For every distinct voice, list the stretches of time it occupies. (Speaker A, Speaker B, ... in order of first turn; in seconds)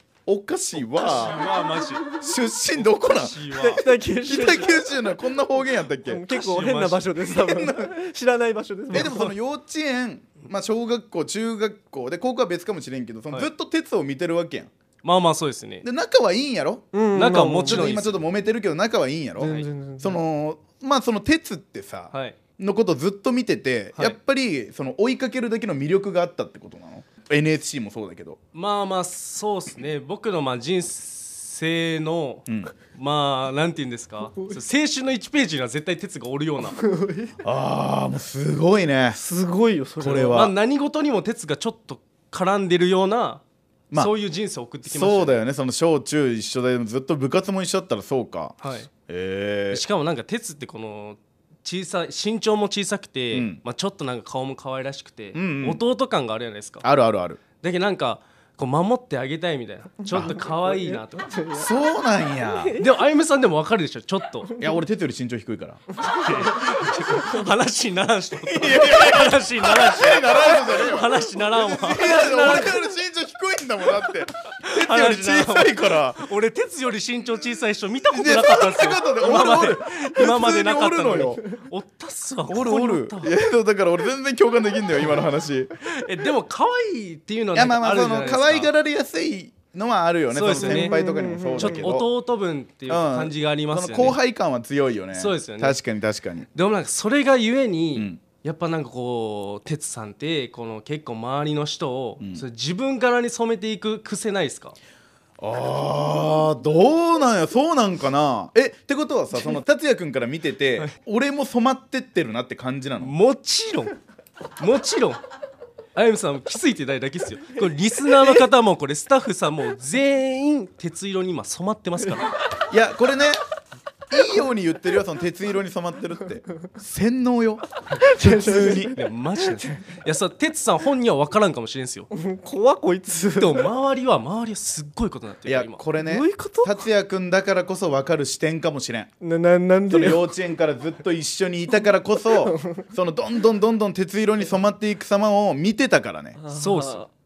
Speaker A: 0.3-1.5, 2.2-3.4, 4.3-6.2, 7.3-7.9, 8.9-14.7, 15.8-16.9, 17.7-28.4, 32.5-32.7, 37.4-39.2, 40.0-40.5, 44.8-48.5, 49.1-49.8, 53.3-53.6, 55.3-55.8, 56.8-57.4, 60.1-60.4, 61.5-62.8, 64.6-66.5, 68.5-76.3, 78.1-81.4, 82.5-85.7, 87.5-92.1, 92.9-96.5, 98.0-98.2, 105.4-113.1, 122.7-123.4, 124.1-128.9, 135.4-139.1, 139.9-146.4
Speaker B: 0.8-2.1, 2.8-3.8, 6.3-7.3, 15.0-15.9, 17.1-18.2, 19.4-19.7, 22.1-22.4, 28.5-36.8, 40.1-45.4, 48.6-48.9, 49.7-56.9, 57.6-61.3, 62.8-64.6, 66.2-72.7, 74.7-83.3, 85.8-88.7, 90.3-91.0, 91.6-94.2, 95.1-95.8, 96.5-104.8, 113.0-114.0, 114.6-115.2, 115.9-122.3, 128.9-132.1, 133.4-135.8, 146.5-147.0
Speaker C: 3.5-4.9, 6.0-9.3, 16.9-17.9, 19.4-20.2, 36.8-37.3, 39.1-40.4, 60.2-61.7, 62.6-62.9, 66.0-67.4, 72.0-72.8, 90.5-91.9, 128.0-129.0, 129.5-129.8, 132.1-133.7, 136.0-136.8, 139.2-140.3, 142.5-142.8, 146.4-147.1